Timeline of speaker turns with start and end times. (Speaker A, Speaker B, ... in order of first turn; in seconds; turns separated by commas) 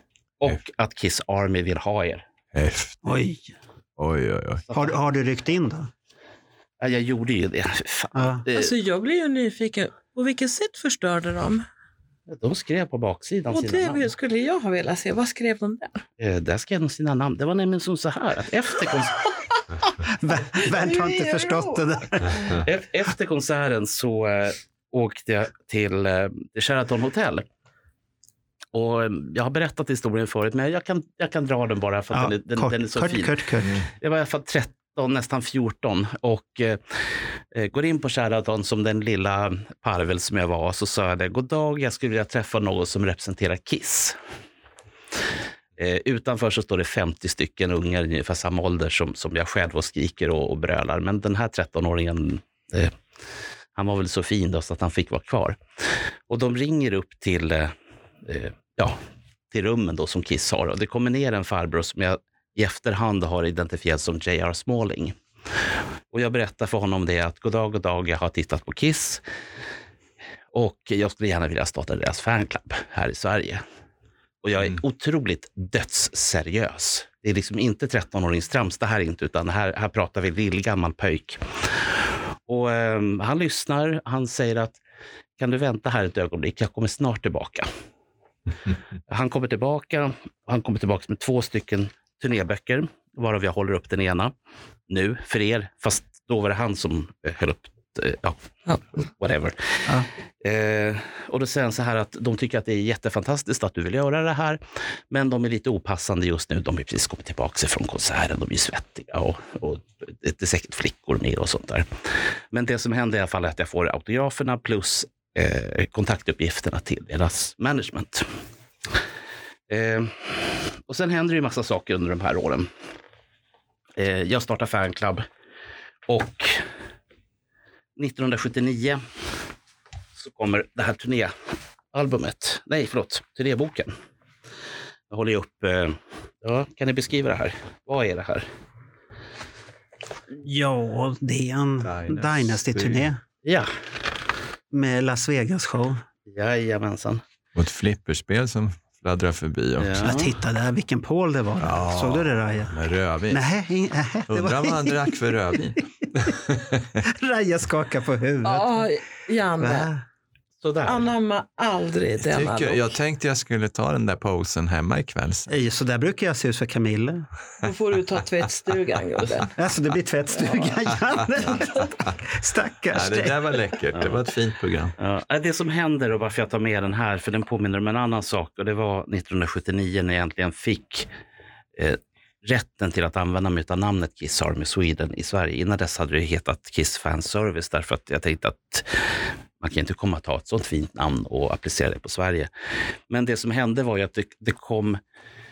Speaker A: 0.4-2.2, Speaker B: 2.5-3.1, Speaker C: 3.0-3.5, Speaker B: 4.0-4.7, Speaker A: 4.7-5.0, Speaker C: 4.7-5.9, Speaker A: 6.8-8.7, Speaker C: 8.1-8.4, Speaker D: 8.5-11.7, Speaker A: 12.3-14.1, Speaker D: 13.5-16.0, Speaker A: 16.2-19.3, Speaker C: 20.0-22.6, Speaker D: 20.5-21.9, Speaker A: 22.5-27.5, Speaker A: 28.7-44.2, Speaker C: 32.1-33.8, Speaker A: 45.8-53.0, Speaker A: 53.7-55.6, Speaker A: 56.3-57.7, Speaker A: 58.2-59.0, Speaker A: 59.5-65.2, Speaker A: 66.1-69.2, Speaker A: 70.5-73.6, Speaker A: 74.4-81.9, Speaker A: 82.5-84.8, Speaker A: 85.4-87.7, Speaker A: 89.1-94.3, Speaker A: 94.9-98.4, Speaker A: 98.9-99.8, Speaker A: 100.4-111.9, Speaker A: 112.5-118.3, Speaker A: 119.7-122.7, Speaker A: 124.0-125.3, Speaker A: 126.1-126.6, Speaker A: 128.0-129.0, Speaker A: 130.2-131.3, Speaker A: 131.9-133.9, Speaker A: 135.1-138.5, Speaker C: 140.4-143.2, Speaker B: 141.8-143.1, Speaker A: 143.4-143.7, Speaker C: 144.7-146.0, Speaker A: 146.3-147.2, Speaker B: 147.5-150.1, Speaker A: 149.8-150.3, Speaker C: 150.0-152.8, Speaker B: 151.6-153.4, Speaker C: 153.3-155.2, Speaker B: 154.3-157.0, Speaker C: 157.0-158.9, Speaker D: 158.4-159.9, Speaker C: 159.6-160.0, Speaker A: 160.6-161.1, Speaker D: 160.8-162.9, Speaker B: 162.2-165.5, Speaker C: 165.5-167.3, Speaker D: 167.6-169.5, Speaker C: 169.6-173.5, Speaker B: 172.9-174.9, Speaker A: 175.0-181.1, Speaker A: 181.8-192.5, Speaker A: 193.1-195.0